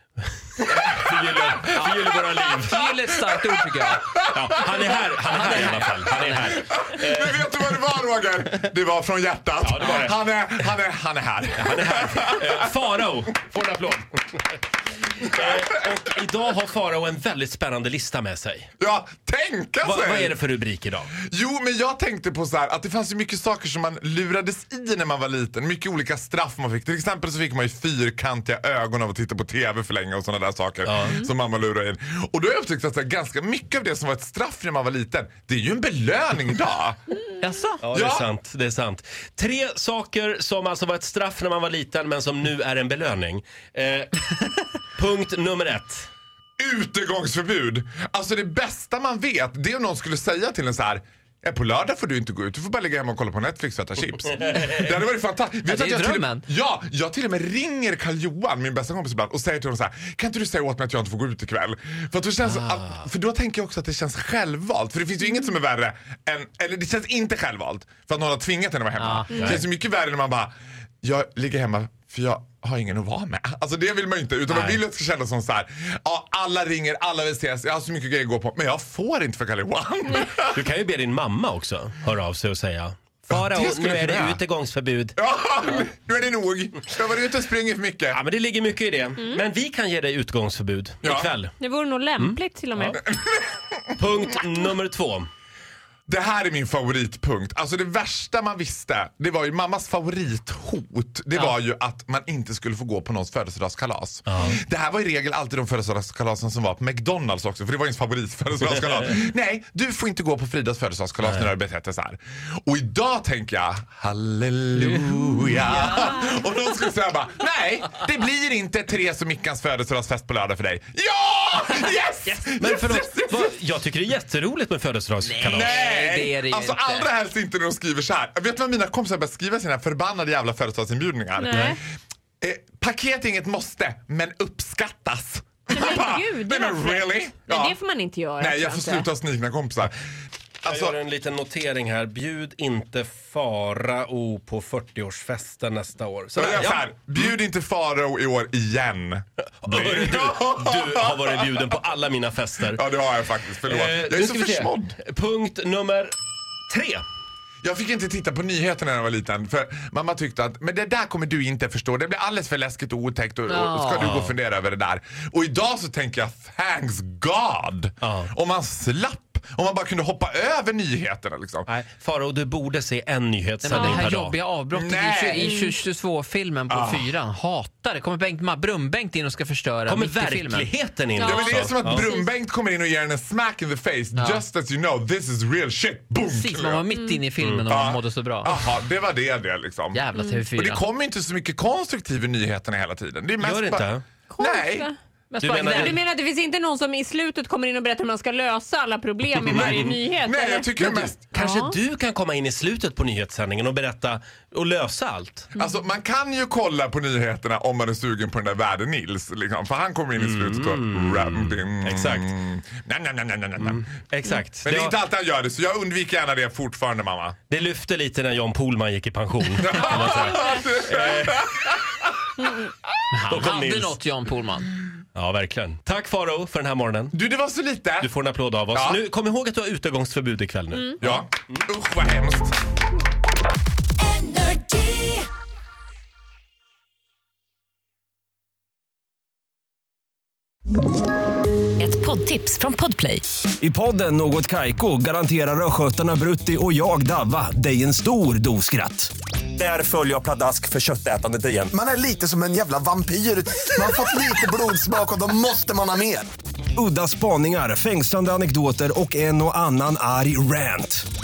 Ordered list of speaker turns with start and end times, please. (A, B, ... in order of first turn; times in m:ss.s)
0:00.2-0:03.0 A
0:01.8-0:04.0 B
0:04.1-0:04.6 C
0:04.3-0:07.4 A
0:04.8-0:06.6 B
0:06.5-0:12.6 C
0:09.6-0:10.2 A
0:11.6-0:14.4 A
0:15.2-0:18.7 A
0:18.8-0:20.4 C
0:19.8-0:21.1 A
0:21.2-0:37.0 C
0:30.8-0:31.2 A
0:37.4-0:37.8 B
0:37.8-0:44.2 A
0:37.9-0:38.3 C
0:44.9-0:46.1 A
0:46.6-1:20.6 C
0:54.4-0:54.8 A
0:55.6-0:56.5 B
1:09.0-1:09.6 B
1:09.3-1:09.6 D
1:09.3-1:09.6 A
1:14.5-1:14.8 A
1:20.5-1:25.2 A
1:23.3-1:24.4 C
1:25.2-1:28.2 C
1:28.1-1:31.5 A
1:31.0-1:31.3 C
1:31.6-1:33.0 D
1:32.2-1:33.0 A
1:33.0-1:34.0 C
1:34.0-1:35.3 A
1:36.1-2:03.5 C
1:44.3-1:44.6 A
1:51.2-1:51.5 A
2:02.3-2:05.8 A
2:05.3-2:07.1 B
2:05.5-2:11.5 C
2:11.4-2:11.8 D
2:11.5-2:11.8 A
2:12.4-2:17.8 C
2:15.7-2:19.1 D
2:18.4-2:20.0 C
2:20.6-2:21.0 C
2:20.6-2:27.3 A
2:26.4-2:31.3 C
2:29.6-2:32.8 A
2:32.7-2:35.0 C
2:33.6-2:36.2 A
2:36.7-2:37.0 A
2:37.6-2:51.7 C
2:43.5-2:44.3 B
2:44.0-2:44.3 A
2:48.0-2:48.3 A
2:51.7-2:54.4 A
2:53.6-3:00.8 B
2:53.7-2:54.1 D
2:54.7-2:55.5 C
2:55.4-2:55.8 D
2:56.7-2:57.1 C
2:59.9-3:02.1 A
3:01.2-3:02.3 D
3:01.2-3:06.9 C
3:04.2-3:04.4 B
3:06.2-3:08.5 B
3:06.9-3:07.2 D
3:07.4-3:07.7 A
3:07.7-3:14.9 C
3:09.9-3:10.9 B
3:10.1-3:10.5 D
3:13.4-3:14.0 A
3:14.3-3:20.7 D
3:15.4-3:16.0 A
3:15.5-3:16.0 B
3:19.5-3:20.0 A
3:20.2-3:21.2 C
3:20.8-3:25.5 A
3:21.3-3:21.8 D
3:25.6-3:33.9 C
3:30.2-3:32.3 A
3:33.6-3:35.0 A
3:34.6-3:37.4 C
3:37.5-3:41.5 A
3:39.6-3:41.7 C
3:39.7-3:40.6 D
3:43.1-3:44.7 B
3:43.3-3:44.0 A
3:45.2-3:47.1 A
3:47.1-3:48.1 C
3:48.0-3:51.1 A
3:48.7-3:49.0 C
3:51.0-3:52.6 C
3:54.3-3:54.8 E
4:01.8-4:03.2 E
4:03.6-4:11.7 F
4:11.7-4:16.3 G
4:16.8-4:21.0 F